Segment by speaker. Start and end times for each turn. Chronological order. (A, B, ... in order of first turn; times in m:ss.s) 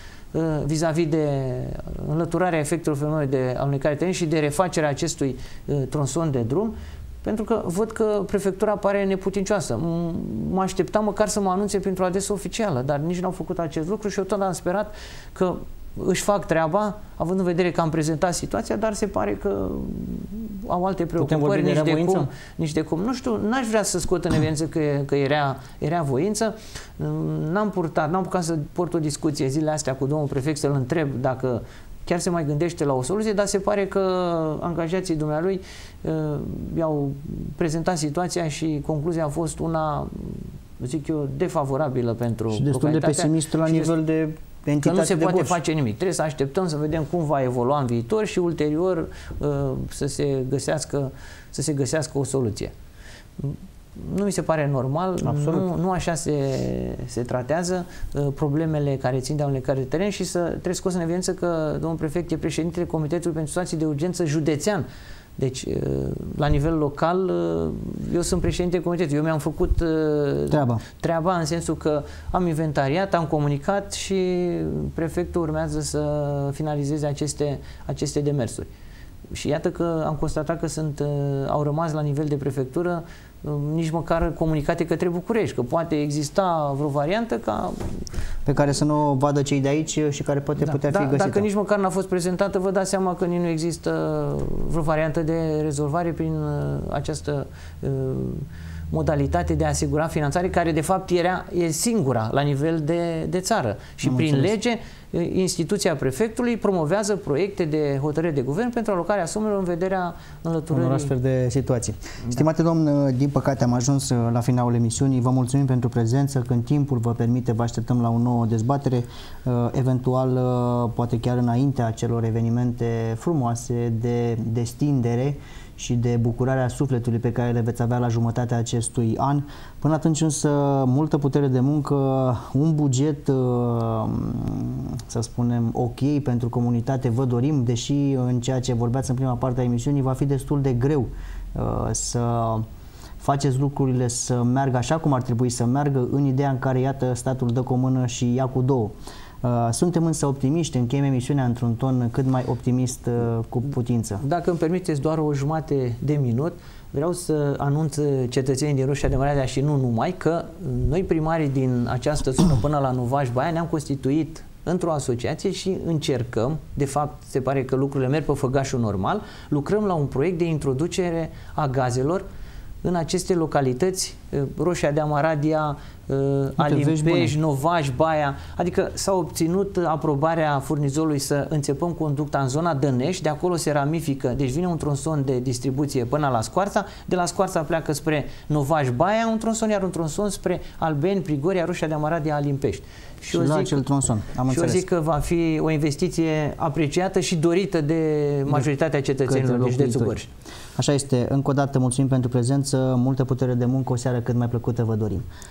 0:00.3-0:43.9 A
0:21.2-0:22.3 B
0:42.5-0:45.6 B
0:44.8-0:52.7 A
0:53.4-1:04.8 A
0:55.2-0:55.7 B
1:05.4-1:18.7 A
1:10.5-1:10.8 B
1:19.3-1:27.9 A
1:28.4-1:31.5 B
1:30.6-1:51.1 A
1:44.0-1:44.5 B
1:50.7-2:22.6 B
2:23.2-2:34.2 B
2:34.2-2:52.2 A
2:52.8-3:13.8 A
2:56.6-2:57.3 B
3:13.3-3:14.9 B
3:14.5-3:20.3 A
3:19.2-3:20.2 B
3:20.8-3:25.2 B